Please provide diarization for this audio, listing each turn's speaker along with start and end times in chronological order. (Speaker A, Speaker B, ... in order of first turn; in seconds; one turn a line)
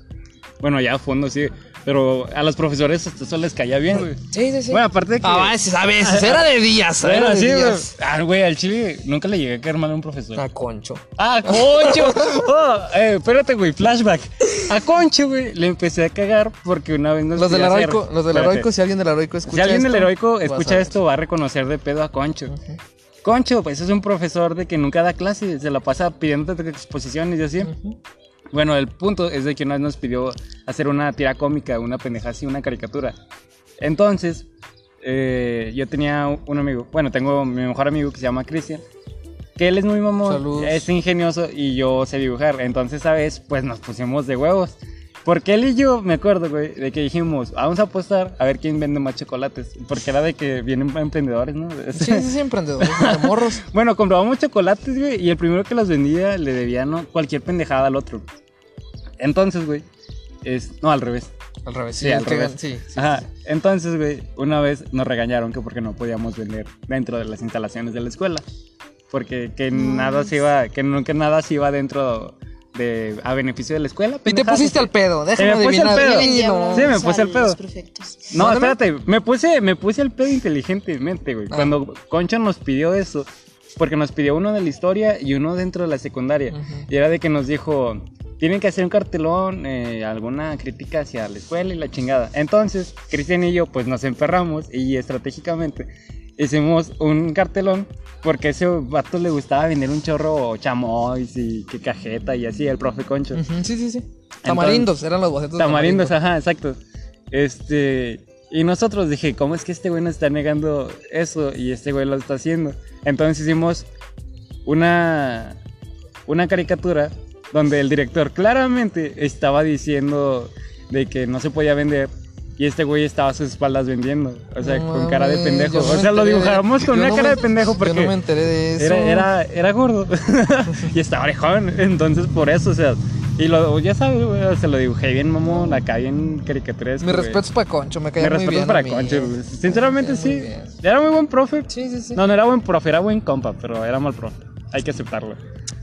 Speaker A: 0.6-10.4
Speaker B: 4.0-7.9
Speaker B: 10.3-12.3
Speaker A: 11.2-18.7
Speaker B: 17.4-21.0
Speaker A: 19.5-22.6
Speaker B: 22.5-22.8
Speaker A: 23.2-27.7
Speaker B: 27.6-28.0
Speaker A: 28.5-33.1
Speaker A: 33.8-34.5
Speaker A: 35.0-38.9
Speaker A: 39.6-58.3
Speaker B: 40.2-40.9
Speaker B: 52.0-53.6
Speaker A: 59.2-59.9
Speaker A: 60.4-61.3
Speaker B: 61.7-63.3
Speaker A: 62.0-68.5
Speaker A: 69.1-77.6
Speaker C: 69.7-70.3
Speaker B: 74.3-76.9
Speaker C: 75.9-78.3
Speaker A: 78.3-103.4
Speaker B: 78.3-78.8
Speaker B: 81.5-81.8
Speaker B: 86.5-86.9
Speaker B: 103.3-106.2
Speaker A: 104.4-104.9
Speaker A: 105.6-106.8
Speaker A: 107.3-113.9
Speaker A: 114.7-115.6
Speaker A: 116.3-128.2
Speaker B: 124.6-129.3
Speaker A: 128.8-137.4
Speaker B: 137.0-140.8
Speaker A: 138.2-145.4
Speaker B: 141.7-142.2